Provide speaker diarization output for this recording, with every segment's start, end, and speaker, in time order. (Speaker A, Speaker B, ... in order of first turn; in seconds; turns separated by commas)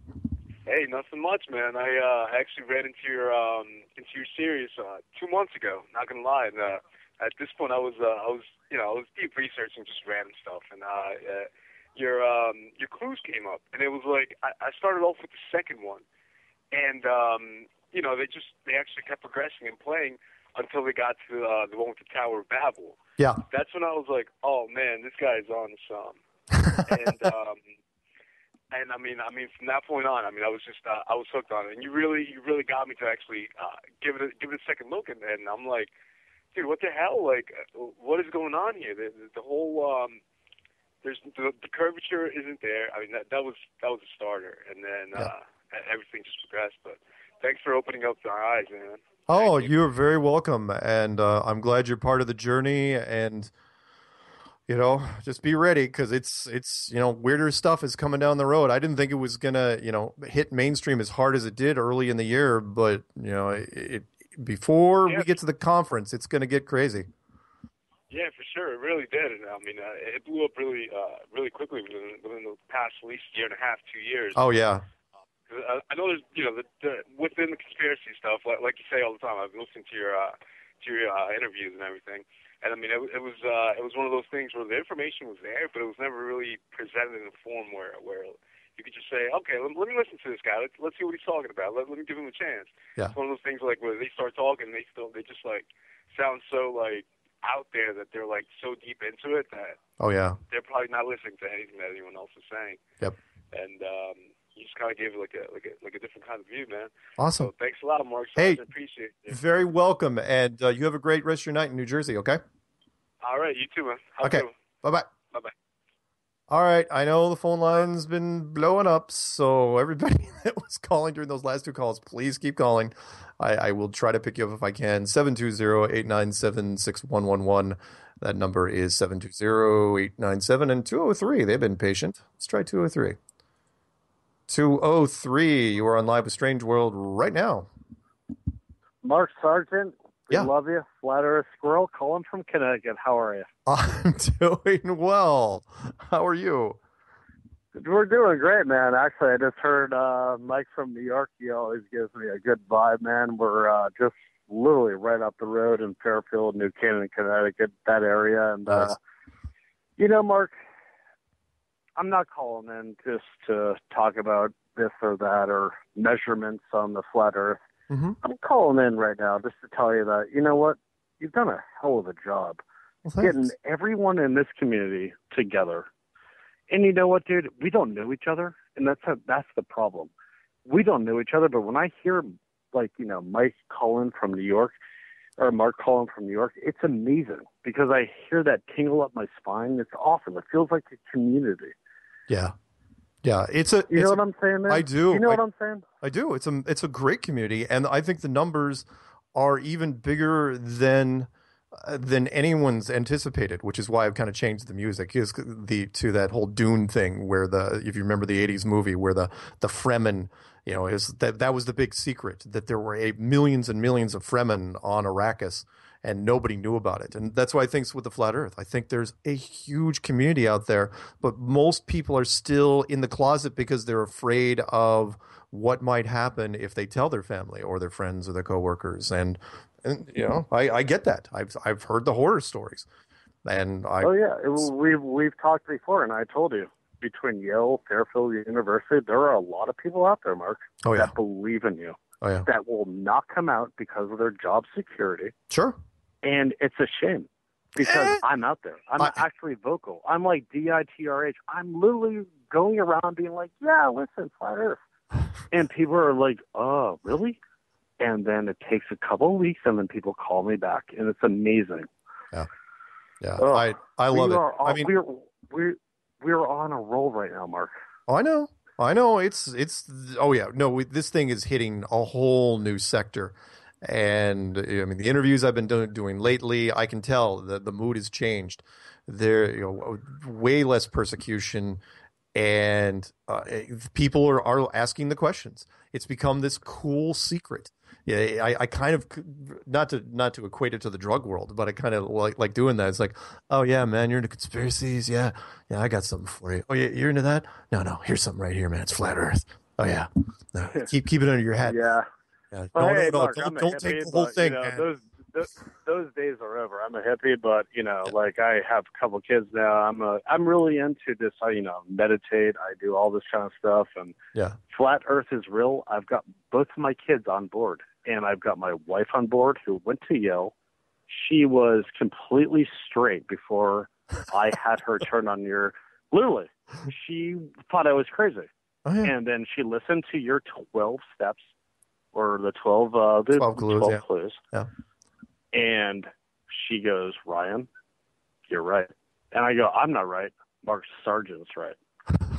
Speaker A: 0.7-16.0, Speaker A: 16.7-26.2, Speaker B: 23.2-23.4, Speaker B: 26.6-27.2, Speaker A: 26.9-27.6, Speaker A: 28.7-35.9, Speaker A: 36.5-40.2, Speaker A: 41.0-49.7, Speaker B: 49.3-53.5, Speaker B: 54.7-67.1, Speaker A: 68.1-74.4, Speaker B: 74.3-74.8, Speaker A: 75.5-99.8, Speaker B: 100.0-100.4, Speaker A: 100.5-102.8, Speaker A: 103.5-109.4, Speaker B: 107.2-107.5, Speaker B: 108.3-108.6, Speaker B: 109.3-112.4, Speaker A: 113.2-114.5, Speaker B: 114.2-115.1, Speaker B: 116.5-133.2, Speaker B: 134.5-137.7, Speaker C: 139.0-143.5, Speaker B: 143.7-146.8, Speaker C: 147.7-159.0, Speaker B: 158.7-158.9, Speaker C: 160.0-160.6, Speaker C: 162.0-167.6, Speaker B: 167.9-168.2, Speaker C: 168.2-172.6, Speaker B: 173.0-173.5, Speaker C: 173.2-175.9, Speaker C: 176.7-180.1, Speaker C: 180.7-184.7, Speaker C: 185.4-191.7, Speaker B: 192.3-192.5, Speaker B: 193.2-195.4, Speaker C: 193.9-195.8, Speaker B: 196.0-232.9, Speaker B: 233.4-234.7, Speaker C: 234.0-245.3, Speaker B: 240.8-241.1, Speaker B: 242.2-242.5, Speaker B: 245.5-245.8, Speaker C: 246.2-254.8, Speaker B: 247.8-248.2, Speaker C: 255.5-257.4, Speaker C: 258.0-261.9, Speaker B: 263.2-264.9, Speaker C: 263.4-267.7, Speaker B: 268.1-281.8, Speaker B: 282.3-301.9, Speaker C: 301.6-302.1, Speaker B: 302.5-304.9, Speaker C: 302.7-314.1, Speaker C: 314.7-320.5, Speaker C: 321.1-328.5, Speaker B: 328.8-329.1, Speaker C: 329.0-331.5, Speaker C: 332.1-334.4, Speaker B: 333.3-334.7, Speaker C: 335.5-337.7, Speaker C: 338.5-341.8